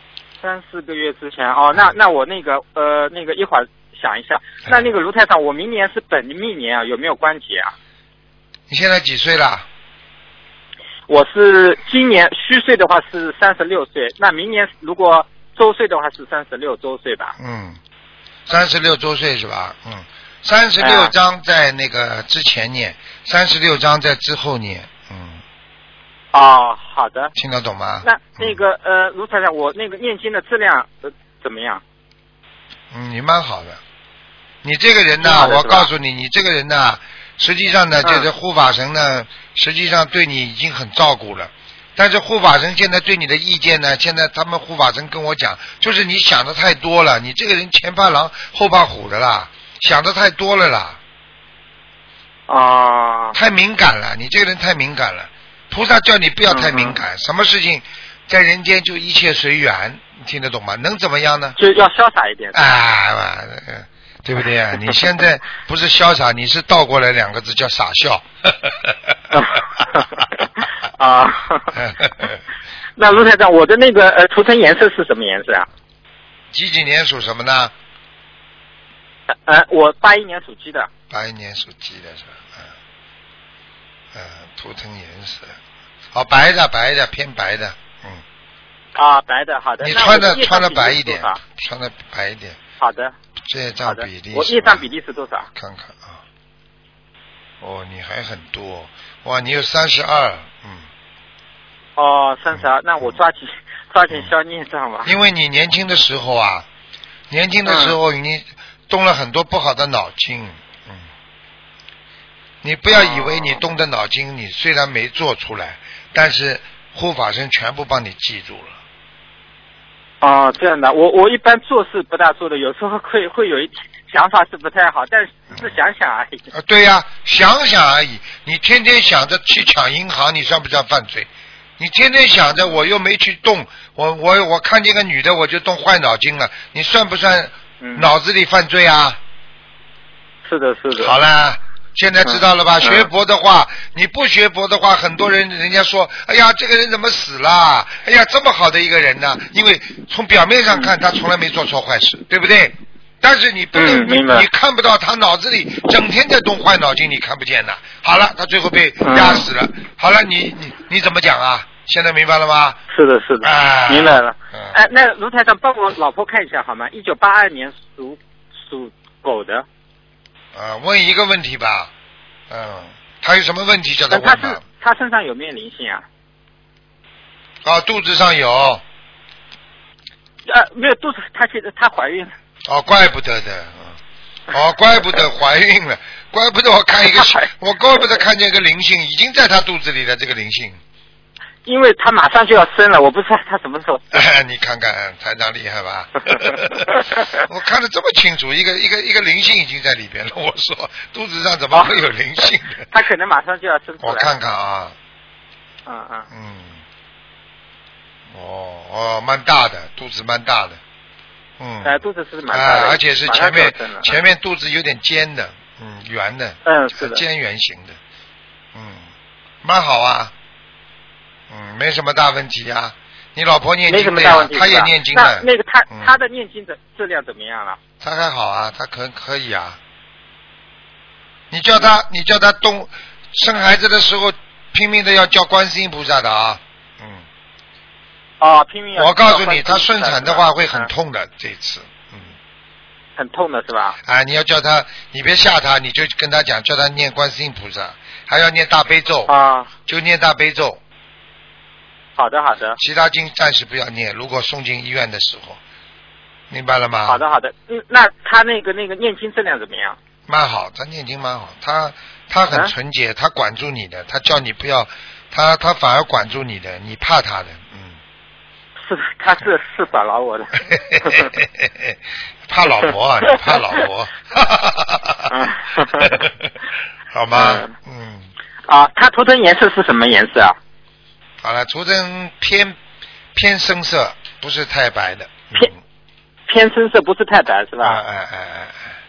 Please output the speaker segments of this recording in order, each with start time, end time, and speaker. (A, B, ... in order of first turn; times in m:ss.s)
0:00.4-0:07.7 A
0:08.7-0:09.6 B
0:11.1-0:17.3 A
0:17.4-0:17.8 B
0:18.4-0:25.4 B
0:20.8-0:21.1 A
0:26.3-0:27.3 A
0:27.4-0:28.6 B
0:28.0-0:31.8 A
0:32.9-0:33.8 B
0:34.6-0:51.0 B
0:35.2-0:35.9 A
0:38.0-0:38.3 A
0:52.5-0:53.4 A
0:53.3-1:01.6 B
0:56.5-0:57.0 A
1:01.6-1:02.8 A
1:02.5-1:09.2 B
1:09.3-1:11.8 A
1:11.7-1:12.4 B
1:13.0-1:15.7 A
1:16.5-1:17.7 B
1:19.3-1:20.9 A
1:21.1-1:22.7 B
1:24.1-1:25.6 B
1:26.1-1:28.2 B
1:28.9-1:31.4 A
1:29.8-1:32.6 B
1:32.8-1:33.1 A
1:33.4-1:34.8 B
1:33.8-1:35.5 A
1:35.5-1:36.2 B
1:37.6-1:40.9 B
1:42.0-1:45.1 A
1:45.0-1:46.7 B
1:47.3-1:51.0 B
1:47.6-1:48.0 A
1:52.6-1:58.8 B
1:52.9-1:53.6 A
2:00.2-2:06.4 A
2:06.5-2:19.2 B
2:17.8-2:18.1 A
2:20.4-2:21.2 A
2:20.9-2:42.8 B
2:22.2-2:23.1 A
2:33.7-2:34.5 A
2:39.0-2:39.5 A
2:42.9-2:49.6 A
2:43.4-2:44.8 B
2:50.5-2:51.9 B
2:52.5-2:54.6 B
2:54.1-2:56.0 A
2:57.6-2:58.8 B
3:00.4-3:02.3 A
3:02.6-3:04.0 B
3:04.5-3:10.8 B
3:07.1-3:07.5 A
3:11.6-3:14.2 A
3:14.1-3:22.8 B
3:16.9-3:17.4 A
3:21.7-3:22.0 A
3:22.9-3:24.3 A
3:24.0-3:25.0 B
3:25.8-3:26.3 A
3:26.3-3:26.8 B
3:28.3-3:30.8 B
3:31.6-3:32.0 B
3:31.8-3:34.1 A
3:32.5-3:38.0 B
3:36.6-3:37.2 A
3:38.7-3:39.1 B
3:39.6-3:40.3 B
3:41.5-3:46.1 B
3:43.9-3:47.8 A
3:48.0-3:49.8 B
3:51.5-3:57.2 B
3:58.4-4:00.9 A
3:59.0-4:02.3 B
4:03.2-4:04.0 A
4:04.0-4:09.3 B
4:09.3-4:09.7 A
4:09.9-4:10.8 B
4:12.2-4:12.8 A
4:12.8-4:15.6 B
4:16.5-4:17.2 B
4:17.1-4:20.0 A
4:20.3-4:28.0 B
4:28.8-4:31.3 A
4:30.7-4:32.0 B
4:32.5-4:36.5 B
4:33.3-4:33.7 A
4:35.3-4:36.2 A
4:37.1-4:38.3 B
4:37.3-4:37.7 A
4:38.7-4:40.6 A
4:41.4-4:42.8 B
4:43.3-4:45.8 B
4:46.5-4:48.0 A
4:47.8-4:48.9 B